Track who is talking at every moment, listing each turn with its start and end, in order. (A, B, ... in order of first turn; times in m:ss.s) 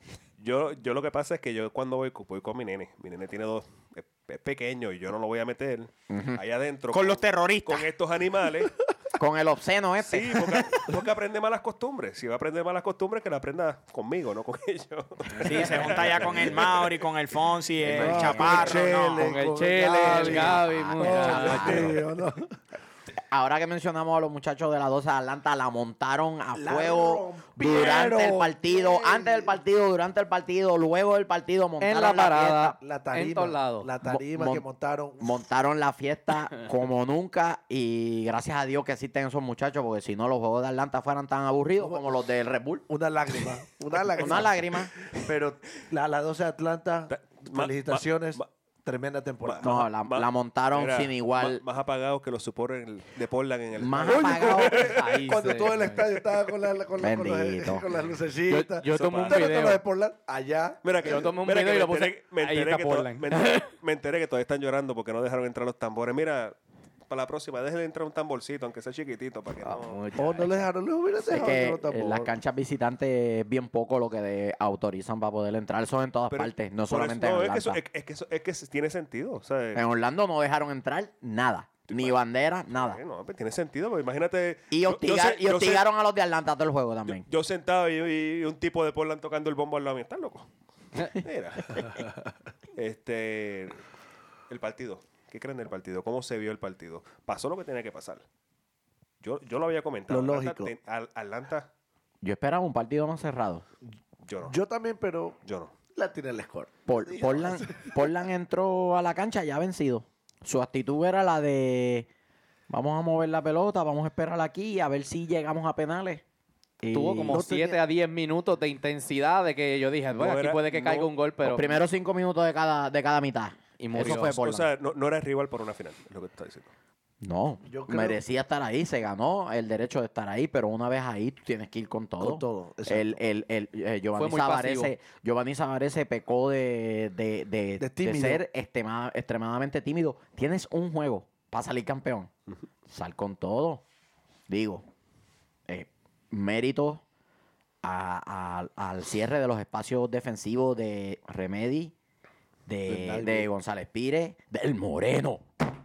0:00.4-0:08.7 A
0:06.1-0:06.4 B
0:06.9-0:07.9 C
0:09.2-0:10.7 B
0:10.0-0:17.0 A
0:15.4-0:19.3 C
0:15.4-0:15.8 D
0:17.9-0:18.8 B
0:17.9-0:22.5 E
0:18.0-0:22.0 D
0:20.0-0:22.0 B
0:23.3-0:32.8 B
0:26.5-0:29.6 E
0:31.8-0:33.9 D
0:32.8-0:35.4 E
0:34.0-0:34.6 B
0:35.2-0:42.8 B
0:41.8-0:42.1 E
0:42.9-0:49.8 E
0:44.1-0:44.9 B
0:47.1-0:48.5 A
0:49.4-0:55.1 A
0:49.6-0:51.6 B
0:53.8-0:54.9 B
0:54.0-1:01.2 E
0:54.3-0:56.0 D
0:57.0-0:57.9 B
0:58.5-0:59.8 D
0:58.9-0:59.5 A
1:00.8-1:06.6 A
1:01.0-1:03.7 D
1:07.1-1:10.0 A
1:09.6-1:10.6 D
1:10.2-1:12.3 E
1:11.3-1:17.8 B
1:16.3-1:19.8 A
1:19.7-1:23.0 B
1:21.9-1:22.2 A
1:22.7-1:25.8 A
1:24.7-1:27.2 B
1:27.0-1:32.0 A
1:32.8-1:33.8 A
1:34.5-1:38.2 A
1:39.2-1:41.7 A
1:40.1-1:40.7 E
1:42.2-1:43.6 B
1:44.2-1:44.6 A
1:44.4-1:45.4 E
1:45.4-1:45.7 A
1:45.9-1:47.9 E
1:46.8-1:52.1 B
1:52.7-1:56.2 B
1:56.8-1:57.4 B
1:56.9-2:01.8 D
1:57.3-1:57.8 E
2:00.1-2:01.1 A
2:01.4-2:04.7 B
2:03.8-2:04.4 D
2:04.0-2:06.7 A
2:07.2-2:22.3 B
2:07.6-2:08.2 E
2:12.2-2:13.2 E
2:14.2-2:14.9 D
2:17.8-2:18.4 E
2:22.9-2:23.8 B
2:24.5-2:24.8 B
2:25.7-2:27.0 B
2:27.8-2:31.9 B
2:32.7-2:35.4 B
2:32.9-2:33.5 E